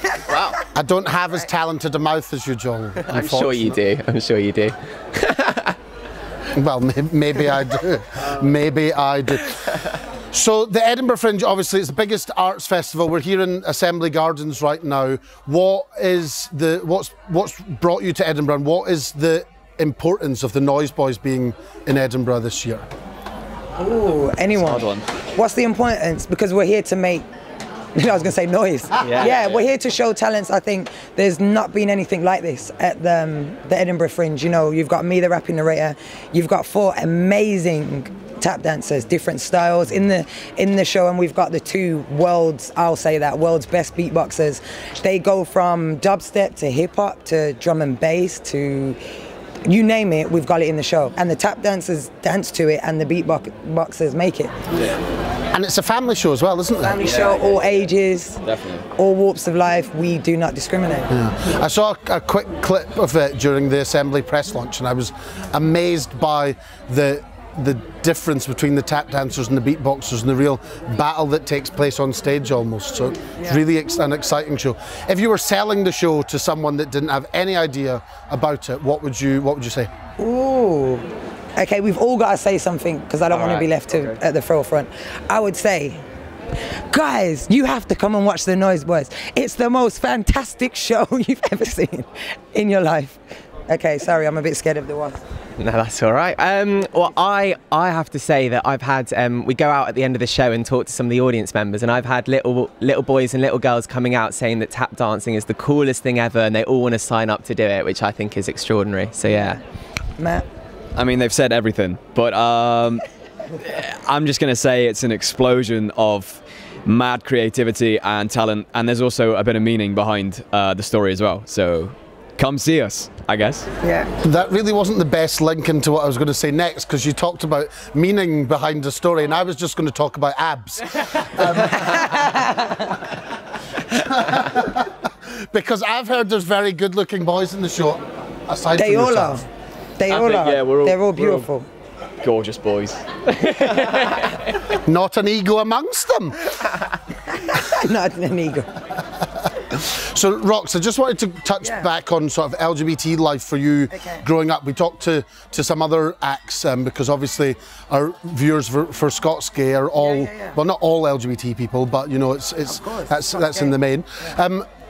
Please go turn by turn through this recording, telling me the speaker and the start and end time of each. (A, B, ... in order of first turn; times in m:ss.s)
0:00.2-0:00.6 A
0:00.6-0:03.8 B
0:03.0-0:05.8 A
0:06.5-0:09.7 B
0:10.3-0:22.8 B
0:23.8-0:27.2 C
0:24.5-0:25.0 D
0:28.0-0:49.0 C
0:29.0-0:29.5 A
0:29.1-0:29.5 D
0:49.6-0:54.6 C
0:55.5-0:57.0 B
0:56.8-0:58.4 C
0:57.1-0:57.8 D
0:58.4-0:58.8 D
0:58.9-1:01.1 C
1:01.1-1:19.9 B
1:20.2-1:26.0 C
1:23.4-1:23.6 D
1:26.9-1:35.2 C
1:35.6-1:49.6 A
1:49.3-1:49.6 C
1:50.2-1:50.4 C
1:50.9-1:53.0 D
1:53.6-2:03.7 D
2:03.8-2:04.1 C
2:04.2-2:12.4 B
2:11.7-2:13.0 C
2:13.9-2:19.4 B
2:18.7-2:19.4 C
2:20.0-2:21.7 C
2:20.1-2:21.5 D
2:22.2-2:24.6 D
2:24.7-2:26.5 B
2:27.3-2:28.7 C
2:29.5-2:44.7 B
2:31.6-2:31.9 C
2:33.9-2:34.2 C
2:40.0-2:40.6 C
2:42.6-2:43.7 C